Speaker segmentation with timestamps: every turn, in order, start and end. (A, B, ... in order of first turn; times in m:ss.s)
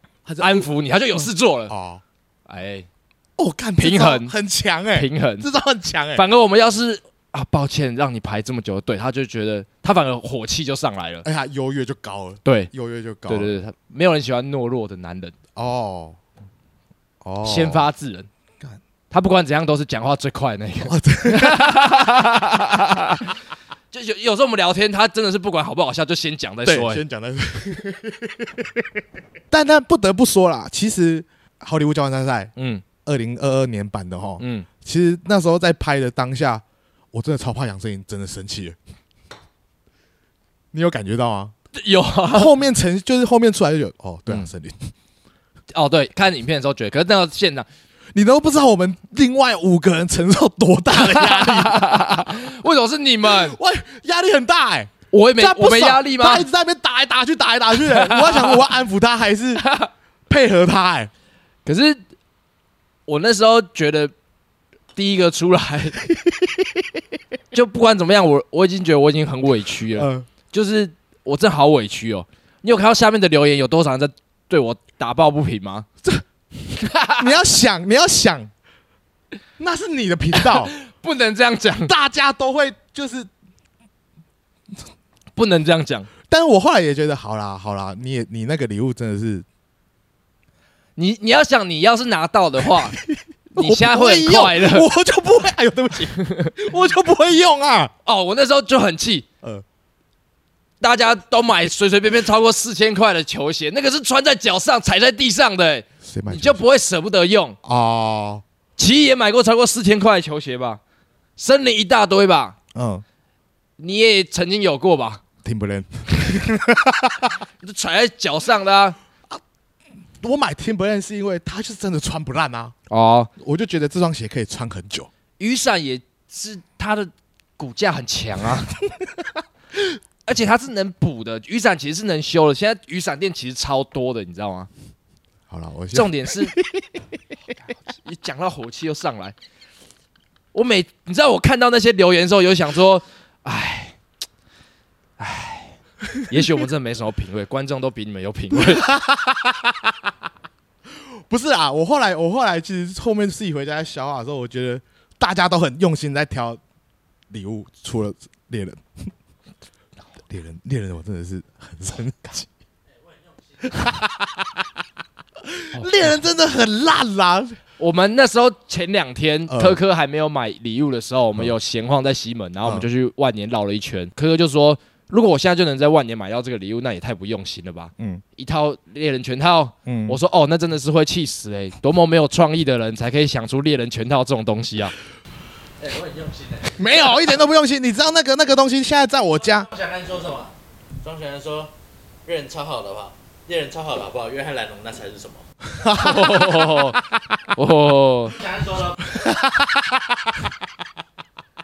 0:00.2-0:02.0 A
0:00.4-0:01.7 B
0:02.5-0:02.9 B
0:03.4-0:06.2 A
0:03.8-0:04.3 B
0:04.9-0:05.5 B
0:06.1-0:11.2 B
0:11.2-0:13.5 A
0:12.4-0:12.7 B
0:13.3-0:15.3 B
0:15.5-0:16.2 A
0:17.2-0:17.8 A
0:17.4-0:18.3 B
0:19.1-0:23.3 B
0:20.8-0:22.1 A
0:23.9-0:27.0 B
0:26.6-0:28.9 A
0:29.5-0:32.5 A
0:32.6-0:32.8 B
0:33.0-0:38.8 A
0:34.4-0:34.7 B
0:40.7-0:41.5 A
0:41.7-0:42.5 B
0:42.3-0:44.9 A
0:45.7-0:47.7 B
0:48.1-0:52.4 A
0:50.9-0:53.6 B
0:53.2-0:59.6 A
0:55.1-0:56.5 B
0:57.8-0:58.6 B
0:59.6-0:59.9 B
1:00.3-1:01.1 A
1:01.6-1:02.0 B
1:03.1-1:04.1 B
1:04.9-1:06.0 B
1:06.1-1:07.0 A
1:07.5-1:15.9 B
1:09.9-1:10.3 A
1:16.7-1:17.3 B
1:17.2-1:18.5 A
1:19.6-1:20.7 A
1:20.4-1:21.9 B
1:21.8-1:23.3 A
1:25.4-1:26.1 B
1:26.2-1:29.4 A
1:31.0-1:33.0 B
1:32.7-1:37.9 A
1:33.5-1:34.9 B
1:36.2-1:36.5 B
1:38.0-1:39.2 B
1:40.8-1:47.6 B
1:46.0-1:46.6 A
1:47.6-1:48.4 A
1:48.8-1:50.8 B
1:51.4-1:52.6 B
1:52.7-1:53.0 A
1:53.8-1:55.2 B
1:55.4-1:57.4 A
1:57.6-1:59.0 B
2:00.2-2:02.7 A
2:02.9-2:03.3 B
2:03.4-2:05.1 A
2:05.4-2:08.8 B
2:10.2-2:14.7 B
2:15.5-2:17.0 A
2:15.9-2:16.6 B
2:17.9-2:19.3 B
2:20.5-2:24.0 B
2:25.2-2:28.9 B
2:28.5-2:29.9 A
2:30.9-2:36.6 A
2:37.3-2:39.1 A
2:40.3-2:42.5 A
2:43.6-2:44.7 A
2:45.4-2:47.6 A
2:47.8-3:04.9 B
2:49.5-2:49.8 A
2:58.0-2:58.2 A
2:59.8-3:00.2 A
3:05.8-3:06.9 C
3:06.7-3:09.7 A
3:09.6-3:11.7 C
3:12.2-3:15.4 C
3:15.7-3:17.4 A
3:15.9-3:18.4 B
3:18.4-3:19.0 C
3:19.0-3:20.4 A